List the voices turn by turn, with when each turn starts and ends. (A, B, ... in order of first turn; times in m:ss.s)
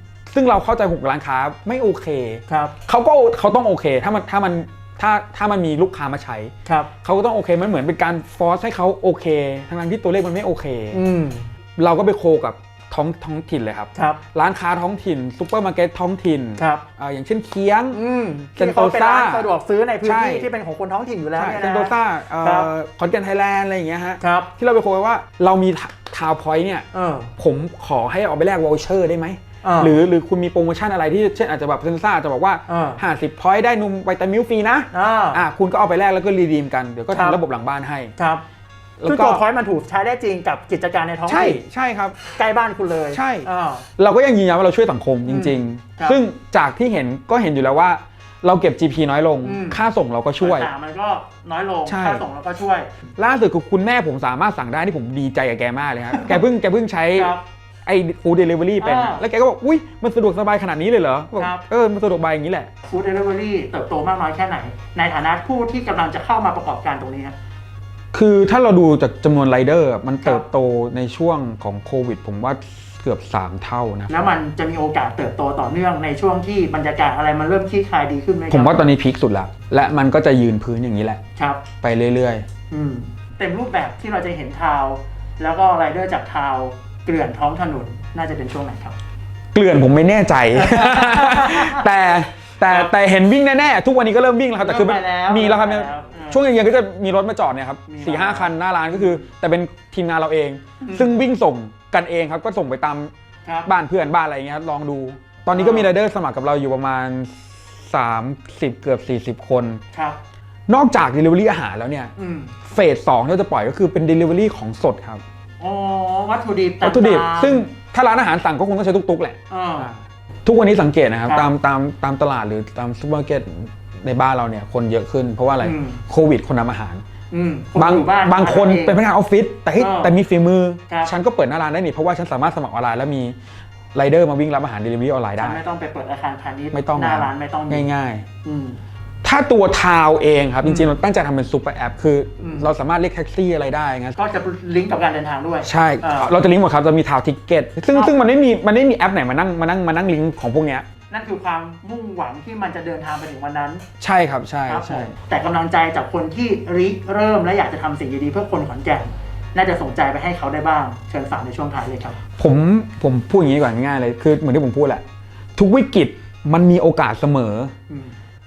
0:00.3-0:06.5 A
0:02.5-0:02.7 B
0:07.0-0:11.0 A
0:10.9-0:11.5 B
0:11.8-0:18.0 A
0:13.9-0:14.2 B
0:16.6-0:16.8 B
0:17.9-0:22.7 B
0:18.6-0:19.5 A
0:20.0-0:20.5 A
0:21.4-0:26.8 A
0:24.2-0:24.5 B
0:26.9-0:27.3 B
0:27.4-0:38.1 A
0:29.6-0:30.0 B
0:32.7-0:33.0 B
0:34.9-0:35.4 B
0:37.1-0:37.4 B
0:38.2-0:38.4 B
0:39.0-0:39.4 A
0:39.1-0:41.6 B
0:41.3-0:42.2 A
0:42.3-0:43.8 B
0:43.1-0:50.7 A
0:45.3-0:46.2 B
0:49.4-0:49.8 B
0:50.4-0:52.9 B
0:51.9-0:52.2 A
0:53.2-0:57.3 A
0:56.1-0:56.4 B
0:57.2-0:57.4 B
0:57.8-1:02.7 A
0:58.8-0:59.2 B
1:01.4-1:01.6 B
1:02.9-1:07.4 B
1:08.1-1:14.2 A
1:14.1-1:18.8 B
1:18.5-1:21.2 A
1:21.4-1:21.6 B
1:21.8-1:22.4 A
1:22.7-1:29.0 B
1:29.5-1:43.1 A
1:30.5-1:31.8 B
1:34.6-1:36.4 B
1:37.9-1:39.2 B
1:40.8-1:41.2 B
1:43.6-1:49.8 A
1:45.5-1:45.9 B
1:50.7-1:52.1 A
1:52.2-1:52.5 B
1:52.6-1:55.2 A
1:55.6-1:57.6 B
1:56.8-1:59.9 A
1:59.5-2:00.0 B
2:00.4-2:07.0 A
2:05.6-2:06.0 B
2:07.3-2:09.0 B
2:07.7-2:13.3 A
2:09.8-2:10.1 B
2:13.9-2:15.6 A
2:15.4-2:17.9 B
2:16.7-2:18.2 A
2:18.4-2:18.8 B
2:19.2-2:24.2 A
2:20.6-2:20.9 B
2:22.4-2:22.7 B
2:24.2-2:26.3 B
2:25.6-2:30.8 A
2:31.1-2:33.8 B
2:34.0-2:35.1 A
2:34.7-2:42.2 B
2:42.4-2:45.0 A
2:45.6-2:47.7 A
2:47.9-2:48.1 B